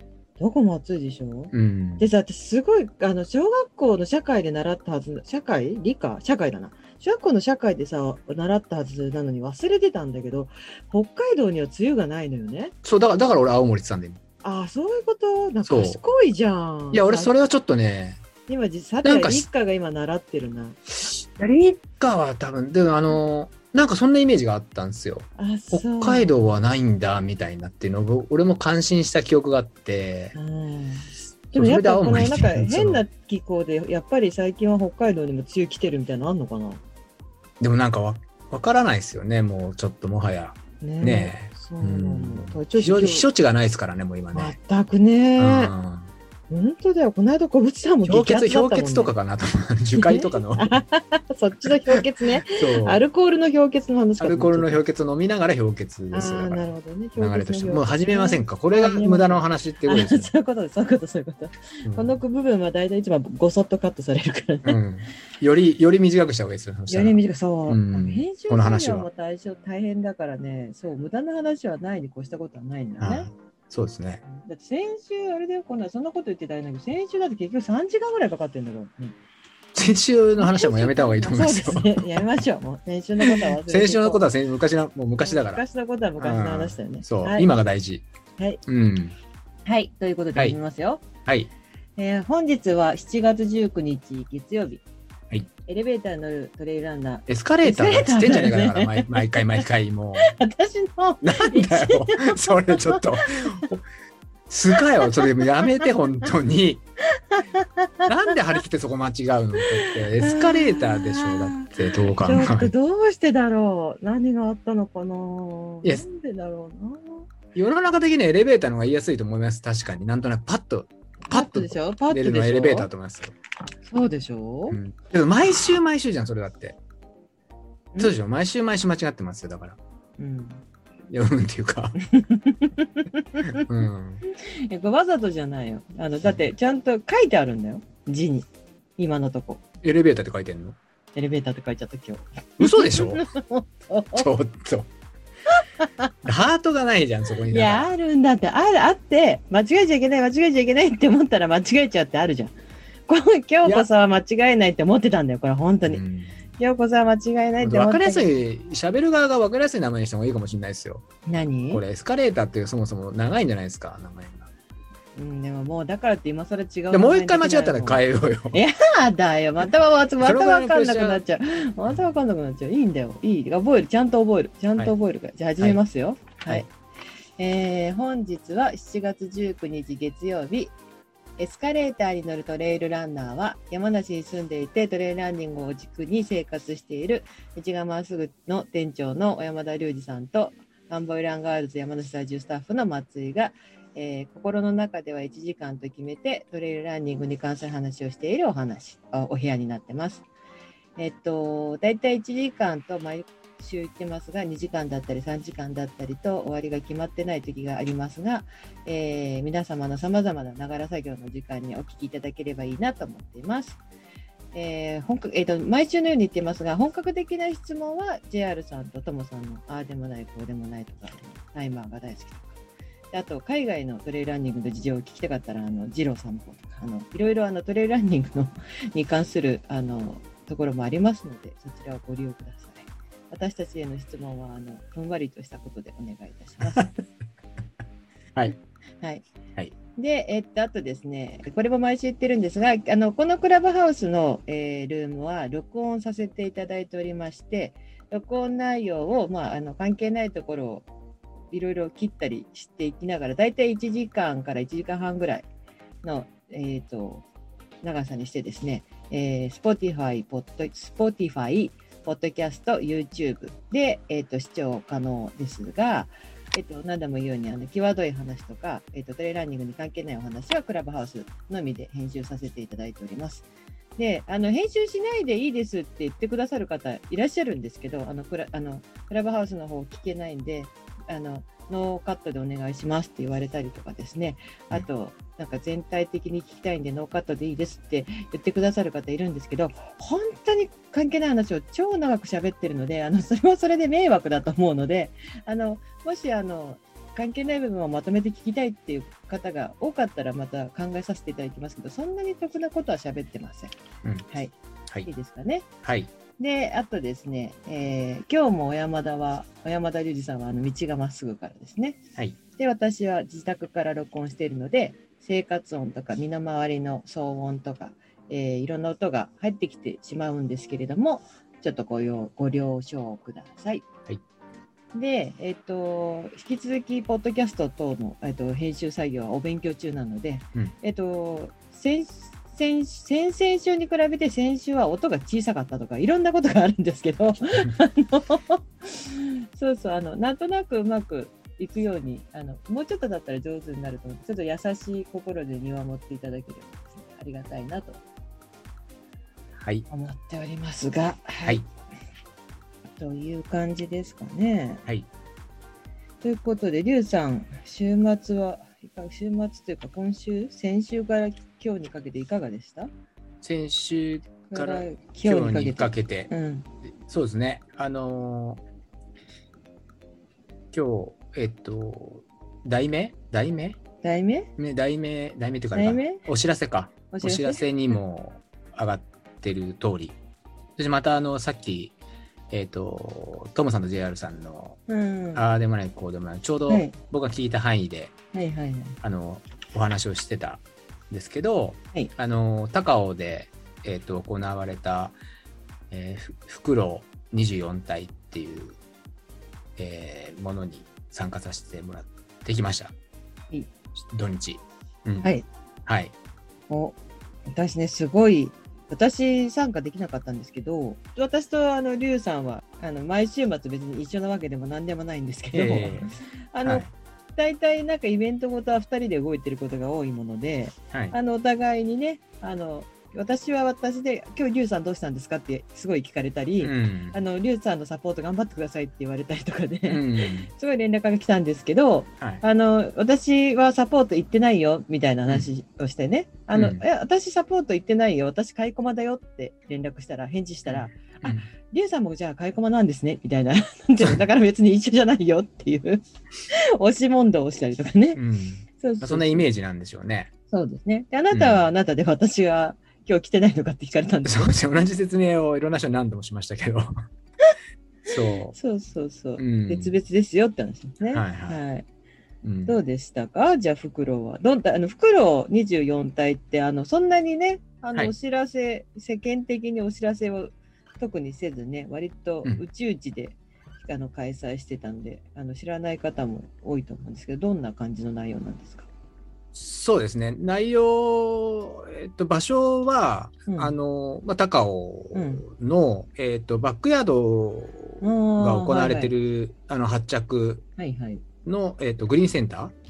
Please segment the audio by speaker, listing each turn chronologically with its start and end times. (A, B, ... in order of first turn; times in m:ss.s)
0:00.4-0:12.7 A
0:01.5-0:02.1 B
0:12.8-0:14.2 B
0:14.4-0:17.3 A
0:15.7-0:16.0 B
0:16.9-0:18.2 B
0:18.5-0:20.8 A
0:19.0-0:19.5 B
0:21.1-0:30.4 B
0:25.4-0:26.4 A
0:30.4-0:36.8 A
0:31.5-0:33.0 B
0:37.6-0:44.6 B
0:40.8-0:43.3 A
0:44.3-0:45.7 A
0:45.4-0:46.1 B
0:46.5-0:49.1 A
0:48.0-0:50.8 B
0:49.9-0:54.8 A
0:52.6-0:53.0 B
0:54.2-1:00.3 B
0:56.1-1:04.8 A
1:01.8-1:02.2 B
1:04.7-1:09.1 B
1:06.9-1:13.3 A
1:13.0-1:14.2 B
1:14.3-1:19.2 A
1:19.8-1:22.2 B
1:20.4-1:24.2 A
1:23.2-1:25.6 B
1:25.2-1:27.5 A
1:26.2-1:28.0 B
1:28.7-1:29.2 B
1:29.7-1:31.0 A
1:31.3-1:31.5 B
1:32.0-1:34.8 A
1:35.7-1:39.6 A
1:37.3-1:40.3 B
1:40.2-1:43.7 A
1:41.2-1:43.8 B
1:44.5-1:46.8 B
1:44.7-1:45.9 A
1:47.2-1:48.3 A
1:48.1-1:52.7 B
1:49.6-1:57.3 A
1:57.5-2:03.3 B
2:01.3-2:02.9 A
2:03.9-2:04.8 A
2:04.7-2:06.8 B
2:08.0-2:09.8 B
2:10.2-2:10.6 A
2:11.1-2:12.0 B
2:12.0-2:13.6 A
2:13.4-2:14.2 B
2:14.3-2:19.6 A
2:19.8-2:20.8 B
2:21.1-2:24.3 A
2:22.6-2:23.3 B
2:24.2-2:24.9 B
2:25.5-2:26.1 A
2:26.2-2:27.9 B
2:27.5-2:32.6 A
2:33.1-2:36.0 A
2:35.9-2:36.4 B
2:36.6-2:38.3 A
2:37.6-2:41.0 B
2:41.3-2:41.8 A
2:41.7-2:44.5 B
2:45.2-2:56.7 A
2:46.9-2:48.6 B
2:50.2-2:51.2 B
2:57.4-3:00.8 A
3:01.4-3:20.2 A
3:21.0-3:33.8 A
3:34.5-3:42.5 A
3:43.1-3:57.0 A
4:00.0-4:10.9 A
4:11.5-4:15.5 A
4:16.0-4:17.2 A
4:17.8-4:33.5 A
4:34.0-5:03.7 A
5:04.3-5:05.7 A
5:05.8-5:06.1 B
5:06.4-5:12.0 A
5:12.6-5:23.8 A
5:24.9-5:48.0 A
5:49.6-5:49.8 B
5:49.9-5:51.6 A
5:53.0-5:54.8 A
5:56.2-6:02.9 A
6:03.4-6:06.3 B
6:04.5-6:06.7 A
6:07.0-6:08.6 B
6:10.7-6:13.8 B
6:14.0-6:14.5 A
6:14.6-6:20.2 B
6:15.7-6:16.2 A
6:17.1-6:17.6 A
6:20.8-6:21.9 B
6:22.5-6:24.8 B
6:24.9-6:25.4 A
6:25.4-6:28.2 B
6:26.7-6:27.0 A
6:28.3-6:29.0 A
6:29.0-6:35.2 B
6:35.9-6:38.8 B
6:39.8-6:42.9 B
6:44.0-6:45.3 B
6:45.9-6:46.1 B
6:46.7-6:47.0 A
6:47.5-7:28.2 A
6:55.5-6:56.1 B
7:06.6-7:07.2 B
7:09.9-7:10.5 B
7:16.5-7:16.8 B
7:20.7-7:21.5 B
7:28.2-7:30.3 B
7:28.8-7:29.5 A
7:30.5-7:34.6 A
7:31.3-7:31.6 B
7:34.2-7:37.0 B
7:38.1-7:38.6 B
7:38.5-7:41.8 A
7:39.4-7:40.0 B
7:41.1-7:41.6 B
7:42.4-7:42.8 B
7:42.7-7:58.9 A
7:59.5-8:10.6 B
8:03.5-8:03.7 A
8:05.1-8:05.4 A
8:08.0-8:09.1 A
8:10.8-8:11.2 A
8:11.4-8:12.7 B